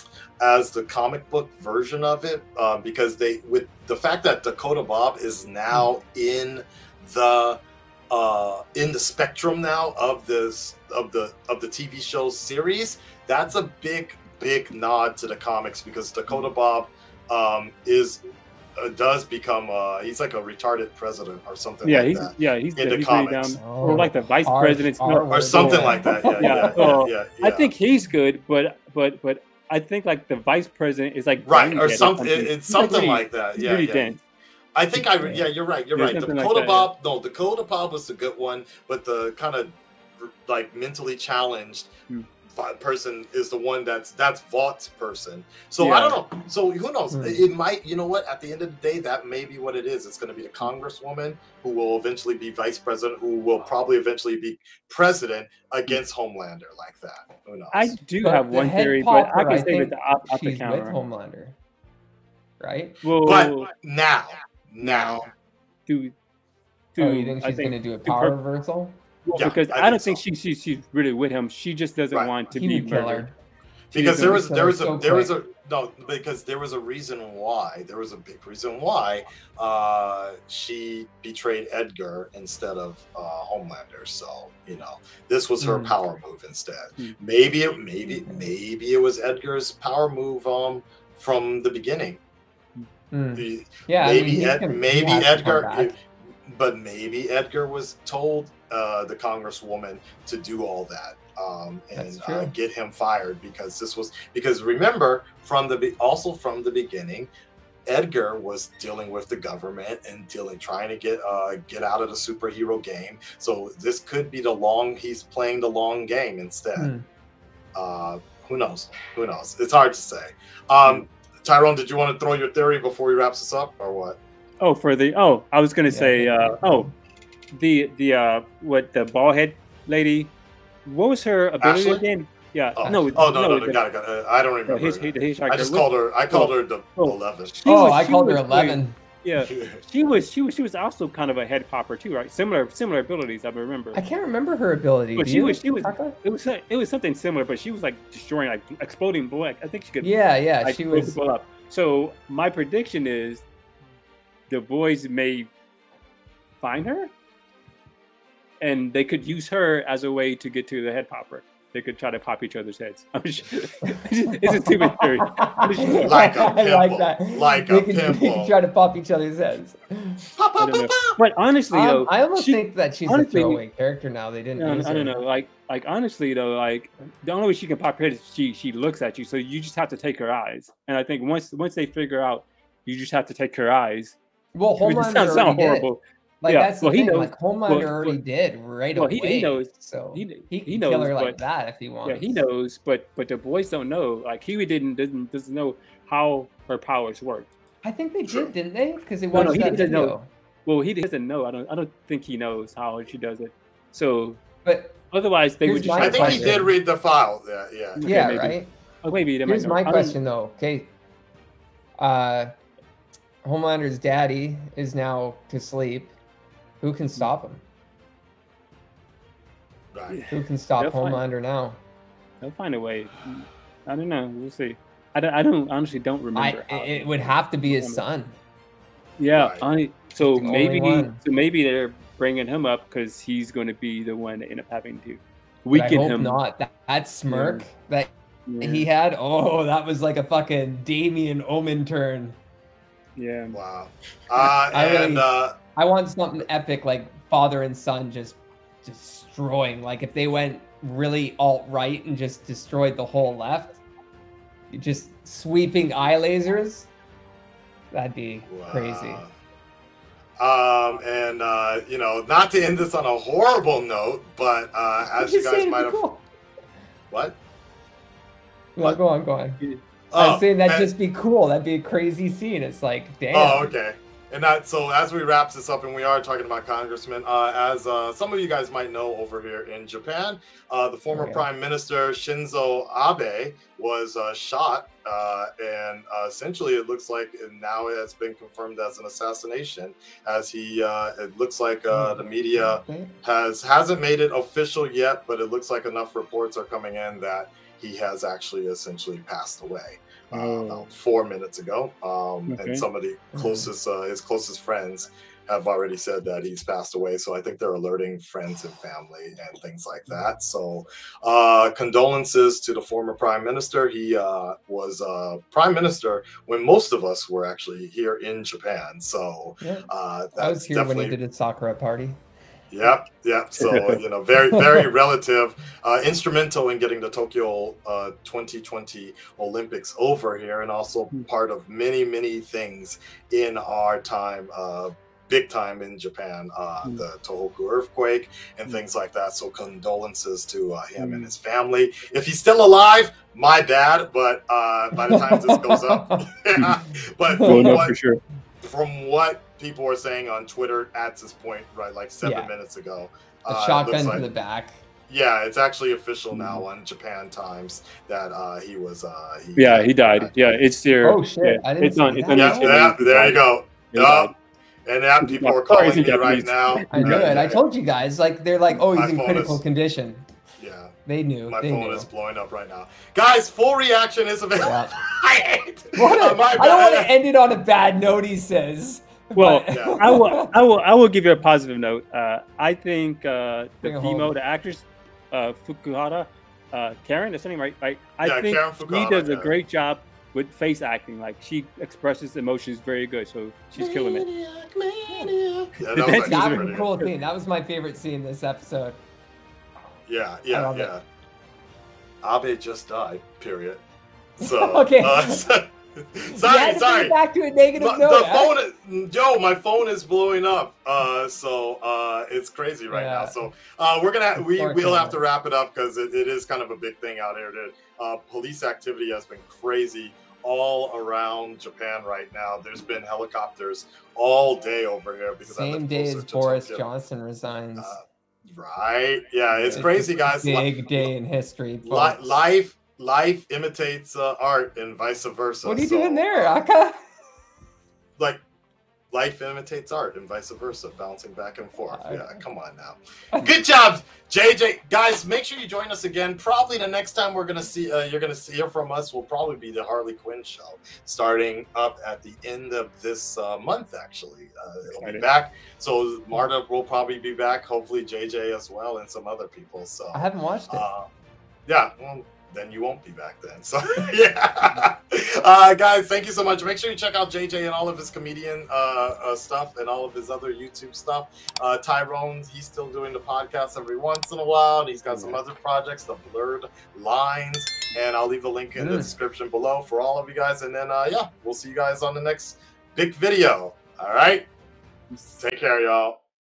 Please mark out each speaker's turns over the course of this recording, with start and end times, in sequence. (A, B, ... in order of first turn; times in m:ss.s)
0:00.4-0:18.2 A
0:18.8-0:23.6 A
0:21.8-0:34.2 B
0:23.6-0:26.9 C
0:25.3-0:27.7 A
0:31.5-0:34.2 A
0:34.8-0:41.9 A
0:36.0-0:36.9 B
0:42.5-0:58.0 A
0:45.8-0:46.2 B
0:47.1-0:47.4 C
0:57.7-1:01.0 B
0:58.2-1:01.6 C
1:02.6-1:03.0 C
1:03.0-1:03.7 B
1:03.2-1:05.3 A
1:04.8-1:05.3 B
1:05.9-1:06.1 B
1:06.9-1:08.4 B
1:07.0-1:09.0 C
1:09.2-1:13.3 B
1:09.3-1:10.2 A
1:12.6-1:13.3 C
1:13.9-1:32.2 A
1:13.9-1:14.4 B
1:14.1-1:15.3 C
1:25.6-1:25.9 C
1:28.1-1:28.5 C
1:33.1-1:35.9 C
1:33.4-1:47.3 A
1:42.0-1:42.5 C
1:47.9-1:56.9 A
1:56.8-1:57.0 C
1:57.8-2:04.2 A
2:04.6-2:06.9 B
2:05.9-2:06.9 C
2:07.5-2:10.3 B
2:10.9-2:13.8 B
2:11.6-2:12.0 A
2:12.8-2:17.5 A
2:14.7-2:24.0 B
2:17.6-2:19.0 C
2:19.5-2:19.8 A
2:23.9-2:26.2 C
2:25.2-2:33.4 B
2:30.0-2:31.2 C
2:34.5-2:35.5 B
2:36.6-2:37.1 B
2:38.6-2:46.1 B
2:44.5-2:50.2 C
2:46.0-2:48.6 A
2:50.4-2:51.2 A
2:50.6-2:53.6 B
2:51.7-2:55.2 C
2:54.6-3:04.2 B
3:04.6-3:05.9 C
3:04.8-3:08.2 B
3:06.4-3:12.4 C
3:09.0-3:11.4 B
3:12.1-3:17.5 B
3:17.8-3:20.3 C
3:18.3-3:18.5 A
3:19.3-3:20.2 B
3:20.7-3:24.4 B
3:24.6-3:25.0 C
3:25.1-3:26.7 B
3:25.6-3:26.7 C
3:26.0-3:28.3 A
3:28.0-3:30.2 B
3:28.0-3:28.7 C
3:29.5-3:30.9 C
3:32.0-3:32.5 C
3:33.4-3:36.1 C
3:36.8-3:37.6 C
3:39.9-3:40.2 A
3:40.1-3:41.2 B
3:40.3-3:41.8 C
3:42.4-3:48.0 B
3:46.4-3:48.4 C
3:49.2-3:56.4 B
3:49.3-3:49.6 A
3:50.2-3:51.2 C
3:55.7-4:02.4 C
3:57.3-3:57.6 B
3:58.5-3:58.9 B
4:03.2-4:03.6 B
4:03.5-4:05.6 A
4:04.7-4:13.8 C
4:14.7-4:16.9 C
4:17.9-4:19.2 C
4:18.5-4:19.3 A
4:20.4-4:26.0 A
4:25.2-4:26.2 C
4:27.1-4:27.4 A
4:28.8-4:29.6 C
4:30.1-4:30.9 A
4:30.2-4:33.7 C
4:33.3-5:21.2 A
4:41.1-4:41.5 C
4:51.9-4:53.1 C
5:00.3-5:00.9 B
5:02.5-5:02.9 B
5:03.3-5:03.7 C
5:19.6-5:22.2 C
5:22.7-5:48.0 A
5:23.6-5:24.0 B
5:41.0-5:41.3 B
5:45.1-5:46.3 C
5:47.4-5:47.8 C
5:47.4-5:48.2 B
5:48.6-5:54.3 A
5:52.2-5:52.5 C
5:53.5-5:54.8 C
5:55.1-6:00.5 A
5:56.3-5:56.6 B
5:59.6-6:03.4 B
6:01.0-6:02.9 C
6:02.3-6:04.3 A
6:03.9-6:04.3 B
6:04.9-6:07.6 A
6:05.2-6:07.3 B
6:06.9-6:10.3 C
6:08.9-6:09.6 A
6:10.6-6:10.9 A
6:11.1-6:12.1 C
6:11.5-6:17.1 A
6:14.6-6:14.9 C
6:16.0-6:20.5 C
6:19.4-6:34.3 B
6:19.7-6:20.0 A
6:23.8-6:24.3 C
6:28.2-6:29.5 A
6:33.8-6:36.9 A
6:36.0-6:37.1 B
6:36.0-6:39.0 C
6:40.1-6:41.0 A
6:40.5-6:40.9 C
6:42.2-6:43.8 A
6:44.4-6:47.2 A
6:44.4-6:45.4 C
6:46.4-6:48.5 C
6:47.8-7:06.9 A
6:52.9-6:53.3 C
6:54.4-6:55.2 C
7:05.5-7:08.0 C
7:07.8-7:11.1 A
7:09.7-7:12.4 C
7:11.8-7:16.6 A
7:15.6-7:17.0 C
7:18.2-7:18.4 A
7:19.1-7:41.1 A
7:21.9-7:22.4 C
7:35.0-7:35.3 B
7:40.1-7:40.9 C
7:41.7-8:04.5 A
7:55.1-7:55.4 B
7:58.8-7:59.1 C
8:05.1-8:05.4 B
8:05.4-8:06.2 A